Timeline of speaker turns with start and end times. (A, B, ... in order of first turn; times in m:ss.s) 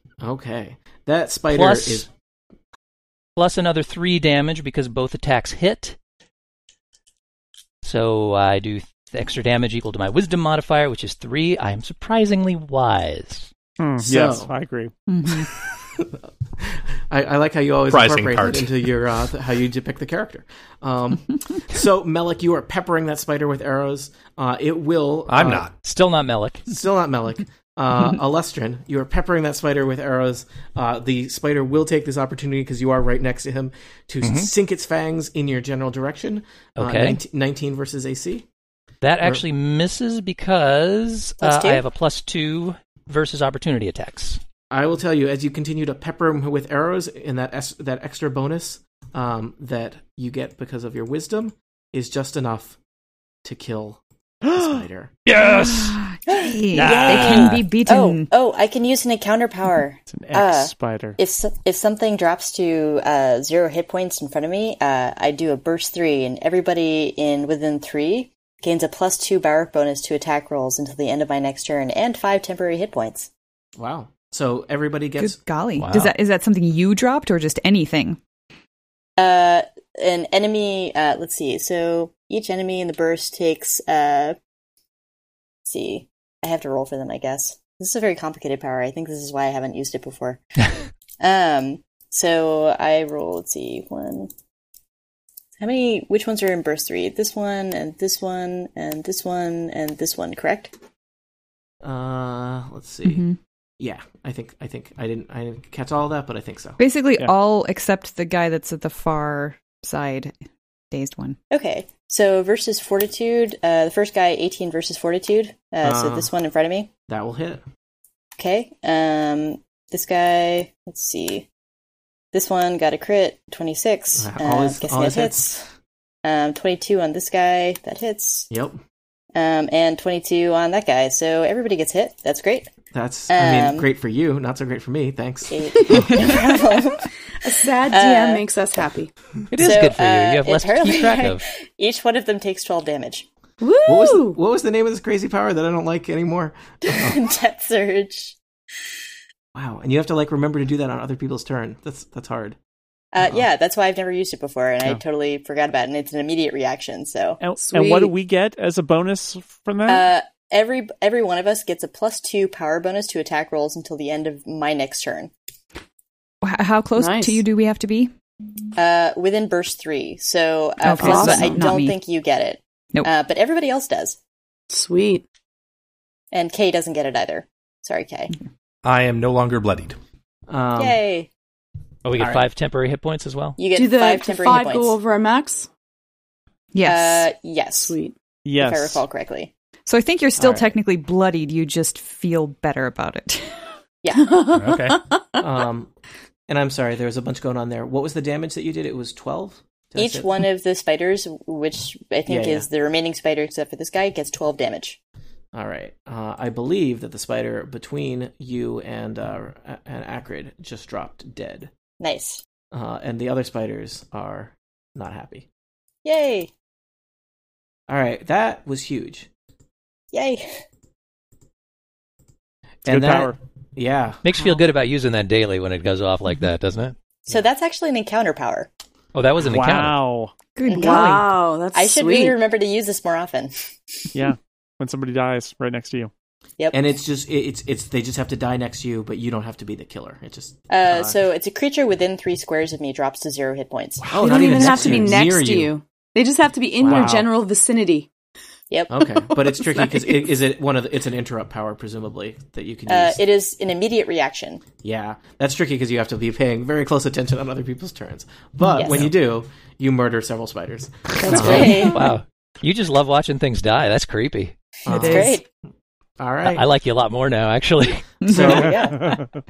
0:00.2-0:02.1 A
0:01.5-0:02.1 B
0:03.4-0:06.0 B
0:07.8-0:13.5 B
0:13.8-0:14.9 C
0:14.0-0:14.5 A
0:15.1-0:15.5 D
0:15.4-0:25.7 A
0:17.9-0:18.8 E
0:25.3-0:25.7 E
0:25.8-0:26.7 B
0:26.7-0:38.5 A
0:34.2-0:34.5 B
0:36.8-0:37.2 B
0:39.0-0:44.4 B
0:41.4-0:41.8 F
0:44.7-0:52.8 A
0:53.4-0:55.1 A
0:55.3-0:56.0 E
0:55.4-0:58.3 D
0:56.3-1:13.3 F
0:56.7-0:57.5 C
1:00.1-1:01.2 C
1:13.8-1:15.4 A
1:15.2-1:18.2 D
1:15.8-1:16.1 B
1:19.2-1:24.4 F
1:25.6-1:30.4 F
1:31.2-1:34.3 F
1:35.6-1:40.7 F
1:41.8-1:43.3 A
1:43.0-1:43.4 D
1:43.8-1:46.8 A
1:46.8-1:50.3 D
1:50.9-1:51.4 D
1:51.5-1:56.9 F
1:55.8-1:56.3 A
1:57.1-1:57.6 A
1:58.4-2:01.5 F
2:02.3-2:05.6 F
2:04.2-2:05.6 A
2:06.2-2:08.5 F
2:08.5-2:08.8 A
2:09.4-2:12.7 F
2:12.9-2:16.4 A
2:13.3-2:13.9 F
2:15.5-2:17.1 F
2:17.4-2:19.1 G
2:17.9-2:18.4 F
2:19.5-2:21.4 B
2:19.6-2:23.3 F
2:23.6-2:24.4 G
2:23.9-2:27.2 A
2:26.8-2:28.4 F
2:29.6-2:32.6 A
2:33.1-2:37.4 F
2:33.2-2:33.5 A
2:37.4-2:40.1 C
2:37.6-2:38.1 G
2:39.9-2:45.3 F
2:46.4-2:48.1 D
2:47.0-2:47.4 G
2:48.8-2:54.2 F
2:50.8-2:52.0 D
2:50.9-2:51.7 G
2:54.7-2:55.2 G
2:56.3-2:58.3 F
2:58.8-3:00.0 E
3:00.5-3:01.0 A
3:00.8-3:01.3 F
3:02.0-3:03.6 B
3:02.2-3:02.5 A
3:03.6-3:05.0 F
3:03.7-3:05.7 G
3:06.7-3:07.3 D
3:06.8-3:08.0 F
3:07.8-3:08.2 G
3:08.4-3:09.0 C
3:08.6-3:09.5 F
3:09.9-3:13.6 D
3:10.4-3:10.7 A
3:14.0-3:14.3 F
3:14.2-3:15.4 G
3:14.5-3:15.0 E
3:15.4-3:15.9 A
3:16.5-3:20.4 A
3:20.0-3:25.0 F
3:22.3-3:22.7 A
3:25.5-3:31.7 A
3:32.0-3:32.4 F
3:32.7-3:35.5 A
3:36.0-3:36.5 F
3:37.9-3:39.3 A
3:40.1-3:40.6 F
3:42.8-3:44.2 A
3:42.9-3:43.4 C
3:44.2-3:47.0 B
3:47.3-3:48.7 F
3:49.1-3:50.0 B
3:49.4-3:50.3 C
3:50.6-3:51.3 D
3:50.7-3:53.5 F
3:50.7-3:52.4 G
3:54.1-3:56.1 C
3:56.7-4:01.2 A
4:00.7-4:05.0 F
4:04.0-4:05.7 A
4:04.1-4:08.1 G
4:06.8-4:07.3 A
4:08.7-4:09.2 F
4:08.9-4:13.2 A
4:12.9-4:14.6 F
4:14.8-4:22.0 A
4:18.7-4:19.1 F
4:21.2-4:22.1 F
4:21.3-4:24.5 B
4:24.9-4:25.4 A
4:24.9-4:25.4 D
4:25.0-4:25.5 F
4:26.2-4:26.7 A
4:26.4-4:28.2 B
4:28.2-4:28.8 A
4:28.3-4:29.2 F
4:28.4-4:29.3 C